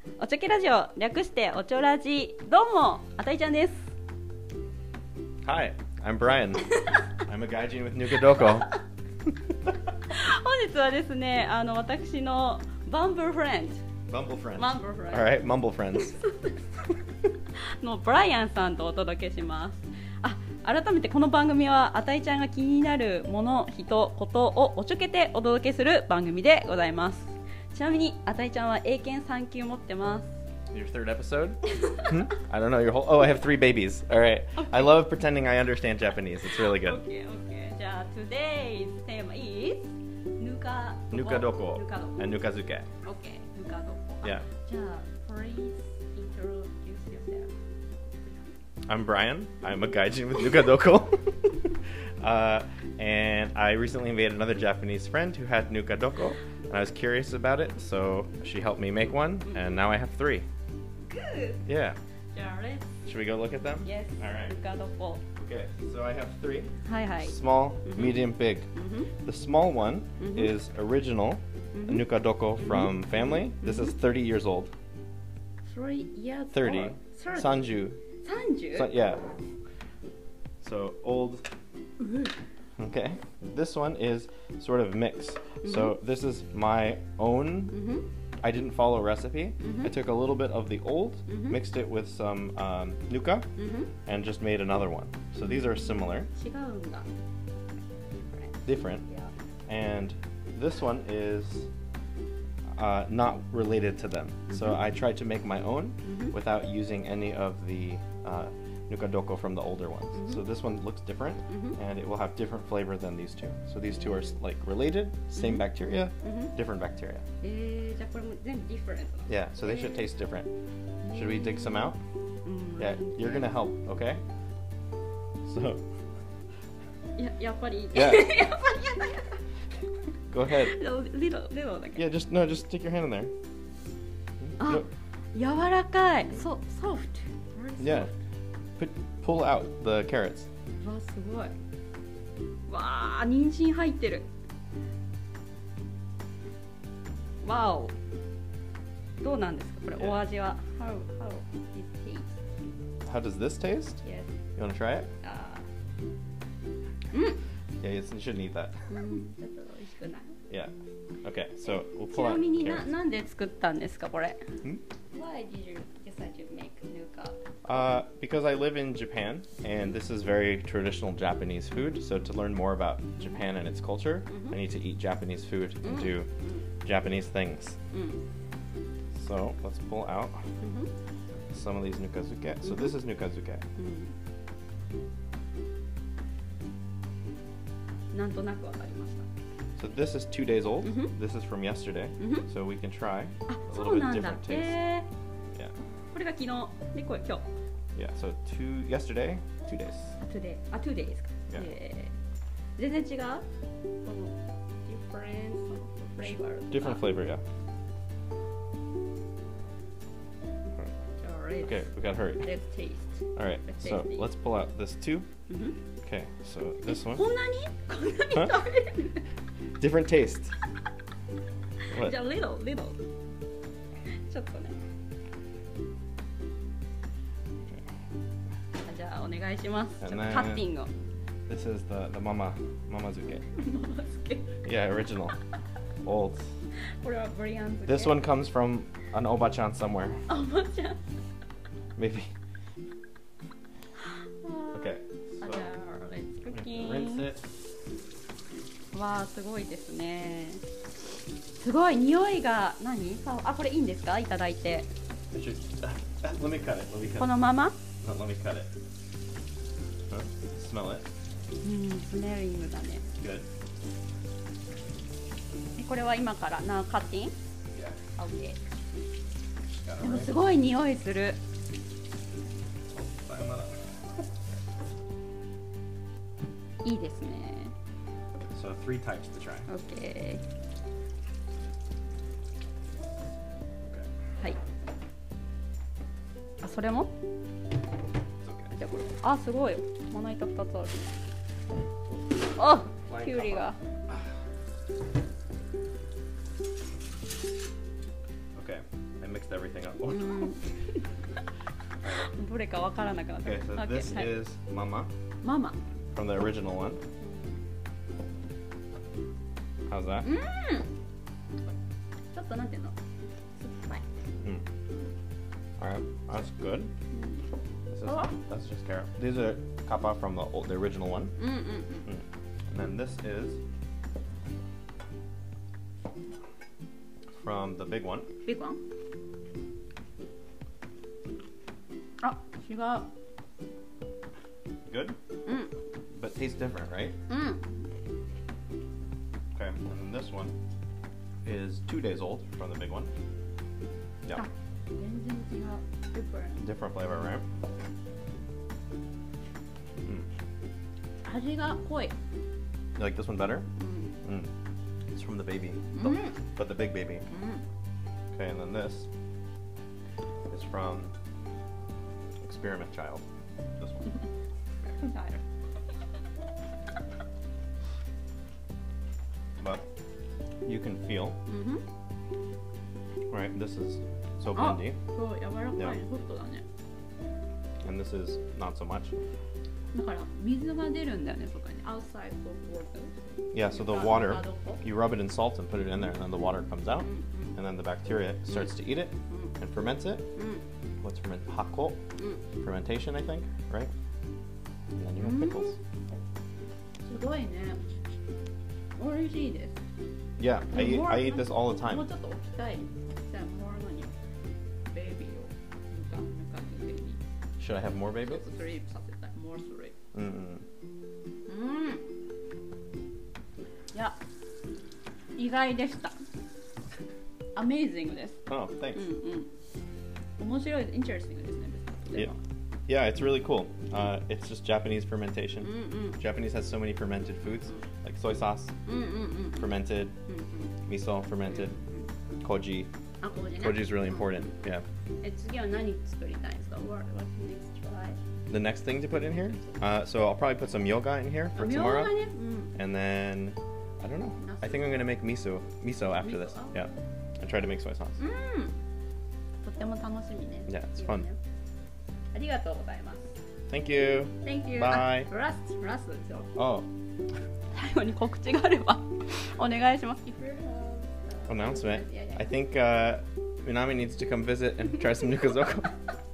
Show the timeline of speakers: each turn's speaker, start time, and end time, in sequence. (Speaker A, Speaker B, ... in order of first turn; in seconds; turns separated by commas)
Speaker A: 0.2-3.8, Speaker B: 5.5-8.7, Speaker A: 10.1-13.8, Speaker B: 14.1-16.2, Speaker A: 14.6-15.4, Speaker A: 16.0-16.6, Speaker A: 17.8-30.3, Speaker B: 30.7-37.0, Speaker A: 36.6-42.4, Speaker B: 41.1-42.9, Speaker A: 43.0-47.5, Speaker B: 48.9-60.5, Speaker A: 61.1-61.6, Speaker B: 61.7-62.0, Speaker A: 62.3-62.9, Speaker B: 63.1-64.5, Speaker A: 63.8-65.2, Speaker B: 65.4-66.7, Speaker A: 66.8-69.1, Speaker B: 67.2-68.7, Speaker B: 69.2-74.7, Speaker A: 70.2-70.5, Speaker A: 71.7-72.0, Speaker A: 72.6-72.9, Speaker A: 73.6-73.9, Speaker A: 75.7-77.7, Speaker B: 76.5-78.0, Speaker A: 78.2-79.0, Speaker B: 78.8-79.3, Speaker B: 80.6-81.4, Speaker A: 82.0-82.3, Speaker B: 82.8-87.8, Speaker A: 85.7-85.9, Speaker A: 87.7-88.1, Speaker B: 88.4-93.5, Speaker A: 89.6-89.9, Speaker A: 91.3-91.6, Speaker A: 93.6-93.9, Speaker B: 94.1-96.3, Speaker A: 95.5-97.1, Speaker A: 98.1-99.3, Speaker B: 98.7-99.0, Speaker B: 99.7-101.7, Speaker B: 102.8-117.2, Speaker A: 104.5-104.8, Speaker A: 106.0-106.3, Speaker A: 110.2-110.4, Speaker A: 111.5-111.8, Speaker A: 115.4-115.6, Speaker A: 116.2-116.5, Speaker A: 117.4-120.0, Speaker B: 119.3-120.5, Speaker A: 121.0-121.9, Speaker B: 121.1-122.0, Speaker A: 122.5-123.5, Speaker B: 122.8-124.2, Speaker B: 125.5-125.8, Speaker A: 127.2-129.4, Speaker B: 127.9-128.4, Speaker B: 130.3-130.8, Speaker A: 130.5-132.0, Speaker B: 132.0-133.3, Speaker B: 134.4-134.8, Speaker A: 134.6-138.1, Speaker B: 137.8-138.1, Speaker B: 138.8-140.5, Speaker A: 140.8-141.5, Speaker A: 142.7-144.3, Speaker A: 147.4-147.9, Speaker A: 149.2-152.3, Speaker B: 153.0-154.0, Speaker A: 154.0-154.3, Speaker B: 154.6-155.1, Speaker A: 155.2-155.6, Speaker A: 157.1-157.4, Speaker B: 157.8-158.7, Speaker A: 158.9-160.3, Speaker B: 161.2-162.9, Speaker A: 162.1-164.4, Speaker A: 165.1-167.4, Speaker B: 167.6-176.3, Speaker A: 174.3-174.6, Speaker A: 175.8-176.6, Speaker B: 176.8-177.8, Speaker A: 177.9-178.2, Speaker B: 179.1-180.4, Speaker A: 180.6-180.9, Speaker B: 181.5-183.6, Speaker A: 182.6-182.9, Speaker A: 183.8-184.1, Speaker A: 188.1-189.3, Speaker B: 189.8-194.8, Speaker A: 190.8-191.1, Speaker A: 192.2-192.5, Speaker A: 193.5-195.1, Speaker A: 196.1-197.4, Speaker B: 197.9-200.1, Speaker A: 200.2-202.1, Speaker A: 202.8-203.4, Speaker A: 204.0-207.1, Speaker B: 206.7-207.4, Speaker A: 211.2-211.8, Speaker B: 211.6-212.4, Speaker A: 212.4-214.3, Speaker B: 213.3-215.2, Speaker A: 215.5-215.8, Speaker B: 216.0-217.3, Speaker A: 216.9-219.2, Speaker B: 219.8-220.5, Speaker A: 221.9-223.0, Speaker B: 221.9-222.2, Speaker A: 224.3-224.8, Speaker A: 228.8-230.9, Speaker B: 230.0-230.7, Speaker B: 231.5-233.4, Speaker A: 233.5-234.6, Speaker B: 234.6-235.3, Speaker B: 236.0-236.4, Speaker A: 237.0-238.2, Speaker B: 237.9-240.2, Speaker A: 240.3-241.0, Speaker B: 242.0-242.3, Speaker A: 244.4-247.3, Speaker B: 244.7-245.7, Speaker B: 246.5-247.4, Speaker A: 248.9-250.6, Speaker A: 251.6-254.9, Speaker B: 255.3-257.4, Speaker A: 257.2-257.8, Speaker B: 258.0-258.7, Speaker B: 260.1-261.1, Speaker A: 261.6-263.0, Speaker B: 263.2-263.5, Speaker A: 265.8-267.4, Speaker B: 267.7-268.0, Speaker A: 268.2-268.6, Speaker B: 269.7-270.4, Speaker A: 270.0-271.4, Speaker B: 272.9-273.8, Speaker A: 276.8-277.7, Speaker B: 278.5-279.7, Speaker A: 279.7-280.4, Speaker A: 286.6-287.1, Speaker B: 288.4-288.7, Speaker A: 288.7-291.1, Speaker A: 292.6-293.8, Speaker B: 293.1-293.7, Speaker B: 298.6-300.6, Speaker A: 300.1-300.7, Speaker A: 302.2-304.4, Speaker B: 303.4-305.1, Speaker A: 305.4-305.8, Speaker B: 306.1-307.0, Speaker A: 307.2-307.6, Speaker B: 309.9-310.3, Speaker A: 310.2-310.9, Speaker A: 312.3-312.9, Speaker A: 313.6-314.1, Speaker B: 315.8-316.9, Speaker A: 317.1-317.4, Speaker B: 317.9-321.3, Speaker A: 318.0-318.4, Speaker A: 321.4-322.1, Speaker B: 322.1-323.6, Speaker B: 327.4-328.3, Speaker A: 328.4-328.8, Speaker A: 332.2-333.1, Speaker B: 334.9-335.2, Speaker A: 335.4-335.7, Speaker B: 336.1-337.2, Speaker A: 337.3-337.7, Speaker B: 339.6-340.6, Speaker B: 341.4-343.1, Speaker A: 344.3-346.6, Speaker B: 346.6-347.4, Speaker A: 351.2-352.1, Speaker B: 353.0-353.7, Speaker A: 353.8-354.1, Speaker B: 354.2-354.5, Speaker B: 355.1-357.2, Speaker A: 355.9-356.4, Speaker A: 357.3-357.6, Speaker B: 358.3-359.1, Speaker B: 360.5-361.1, Speaker B: 362.4-363.2, Speaker B: 363.8-364.1, Speaker A: 364.9-365.4, Speaker B: 369.6-369.8, Speaker B: 370.6-371.4, Speaker A: 371.5-371.8, Speaker B: 373.3-375.0, Speaker A: 374.6-376.6, Speaker B: 377.8-379.1, Speaker A: 379.9-384.8, Speaker B: 383.5-390.2, Speaker A: 387.0-387.5, Speaker A: 389.3-389.6, Speaker A: 390.4-390.6, Speaker B: 391.0-392.0, Speaker B: 392.6-393.9, Speaker B: 394.9-395.8, Speaker A: 395.2-395.8, Speaker A: 397.1-397.8, Speaker A: 399.0-399.7, Speaker B: 400.4-402.1, Speaker A: 400.7-404.1, Speaker A: 404.9-407.2, Speaker B: 407.6-408.4, Speaker A: 408.2-409.9, Speaker B: 410.1-410.6, Speaker A: 411.5-412.0, Speaker A: 415.4-416.2, Speaker A: 417.6-418.4, Speaker B: 418.5-419.1, Speaker A: 418.9-419.5, Speaker A: 420.4-422.4, Speaker B: 422.9-428.7, Speaker A: 425.6-426.2, Speaker A: 428.9-430.7, Speaker B: 429.6-430.1, Speaker B: 430.9-431.8, Speaker A: 431.5-432.1, Speaker B: 432.4-432.9, Speaker A: 433.2-434.3, Speaker B: 433.6-434.8, Speaker A: 435.2-438.2, Speaker B: 438.5-442.1, Speaker A: 439.1-439.6, Speaker A: 441.5-442.7, Speaker B: 442.8-448.2, Speaker A: 444.4-445.0, Speaker A: 446.2-446.9, Speaker A: 448.2-448.7, Speaker A: 449.6-451.4, Speaker B: 450.7-451.2, Speaker A: 452.3-453.2, Speaker B: 453.7-455.3, Speaker A: 454.4-456.5, Speaker B: 456.6-456.9, Speaker A: 457.7-462.5, Speaker B: 461.5-466.0